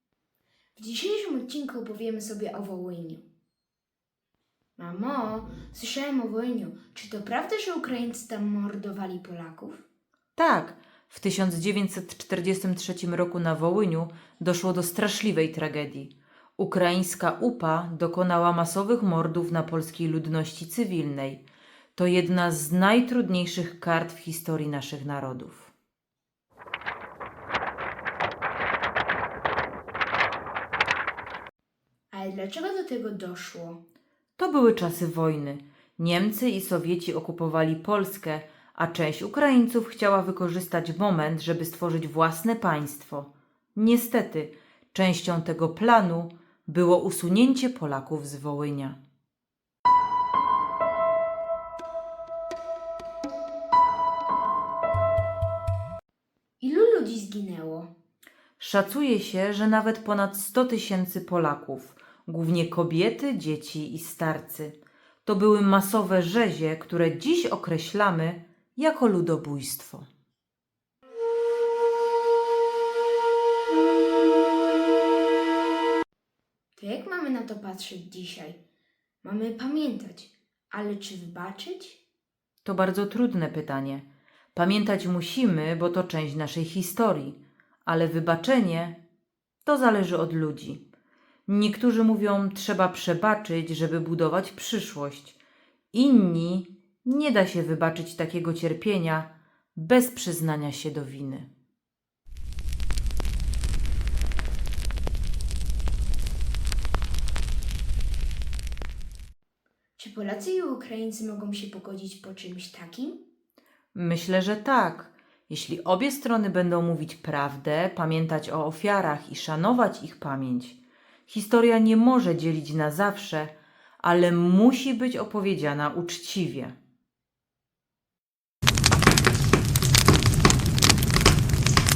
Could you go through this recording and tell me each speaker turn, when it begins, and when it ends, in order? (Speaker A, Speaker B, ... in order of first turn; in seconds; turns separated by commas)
Speaker A: 0.8-3.2, Speaker A: 4.8-9.8, Speaker B: 10.3-21.4, Speaker B: 21.9-25.7, Speaker A: 32.1-33.8, Speaker B: 34.4-49.0, Speaker A: 56.6-57.9, Speaker B: 58.6-70.1, Speaker A: 76.8-78.6, Speaker A: 79.2-82.0, Speaker B: 82.6-89.0, Speaker B: 89.6-90.8, Speaker B: 91.5-95.4, Speaker B: 95.9-101.5, Speaker A: 110.0-113.2, Speaker B: 113.9-126.8